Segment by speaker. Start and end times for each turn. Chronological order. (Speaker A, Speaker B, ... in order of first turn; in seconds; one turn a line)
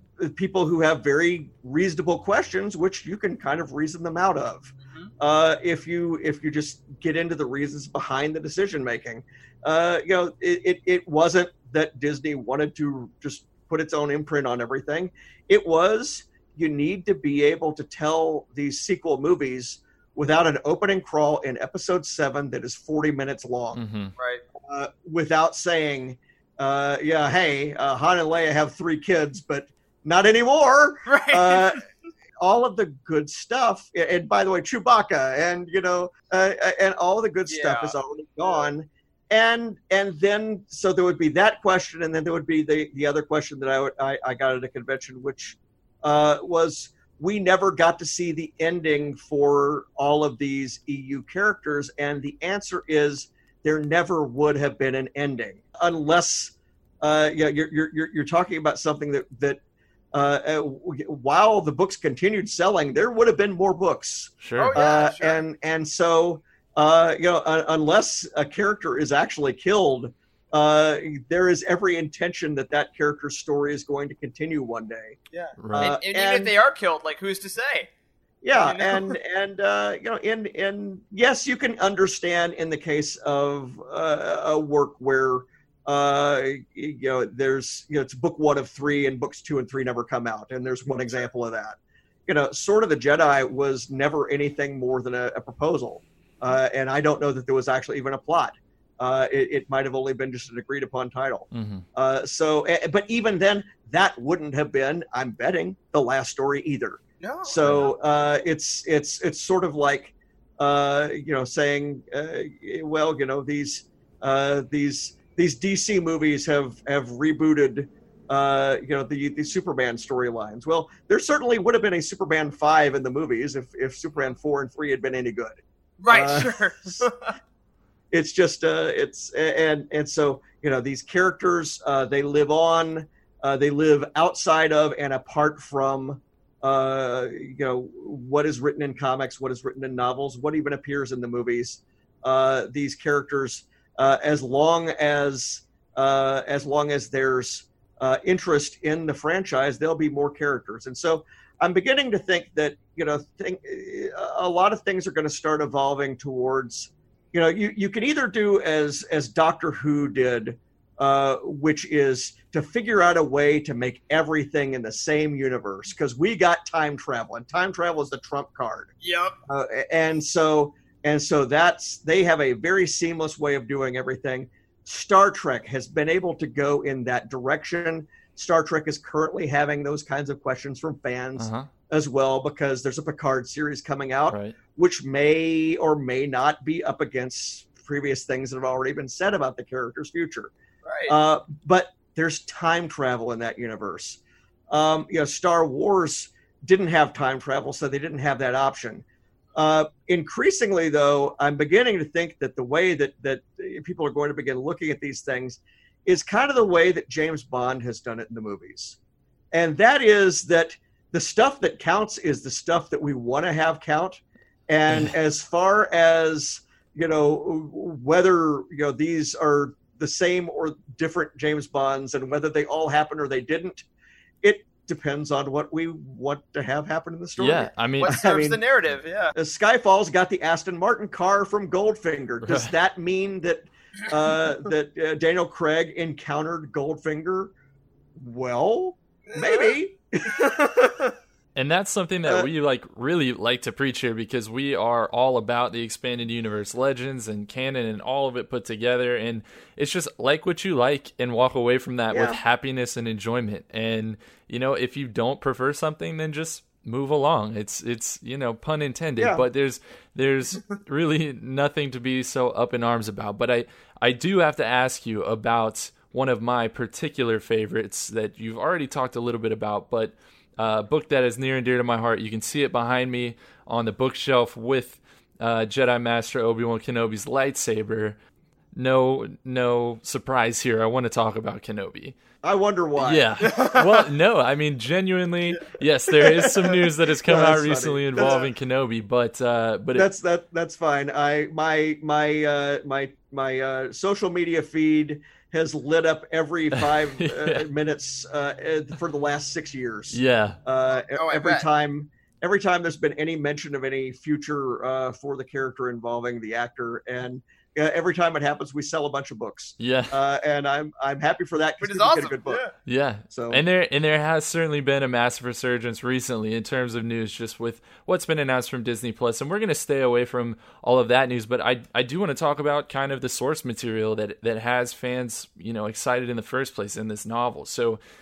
Speaker A: 0.2-23.8
Speaker B: 23.8-24.1
Speaker A: 24.6-31.8
Speaker C: 31.1-31.8
Speaker A: 32.4-59.6
Speaker C: 37.5-38.0
Speaker A: 60.1-75.2
Speaker B: 64.4-64.8
Speaker C: 64.6-65.4
Speaker C: 75.3-77.9
Speaker B: 75.6-76.0
Speaker A: 75.7-76.5
Speaker A: 78.4-127.1
Speaker C: 78.5-79.2
Speaker B: 101.5-101.8
Speaker C: 107.2-107.9
Speaker C: 126.0-127.3
Speaker A: 128.1-168.9
Speaker C: 169.0-169.4
Speaker A: 169.5-190.5
Speaker B: 181.4-181.7
Speaker B: 184.3-184.6
Speaker C: 190.8-191.1
Speaker A: 191.1-194.2
Speaker A: 194.7-199.0
Speaker A: 199.6-209.0
Speaker A: 209.5-223.9
Speaker A: 224.4-228.6
Speaker B: 227.4-228.1
Speaker C: 228.0-229.3
Speaker A: 229.3-237.5
Speaker B: 232.4-232.7
Speaker A: 238.2-241.1
Speaker C: 239.3-239.7
Speaker B: 241.6-278.2
Speaker A: 252.1-252.4
Speaker A: 259.2-259.4
Speaker B: 278.7-282.1
Speaker A: 282.4-283.7
Speaker B: 283.0-290.1
Speaker C: 283.5-283.8
Speaker A: 286.1-288.5
Speaker C: 288.2-288.4
Speaker A: 289.9-312.7
Speaker B: 296.8-297.7
Speaker B: 300.1-300.6
Speaker C: 301.1-301.6
Speaker B: 309.8-310.2
Speaker C: 311.8-312.7
Speaker B: 312.9-328.0
Speaker A: 313.3-313.6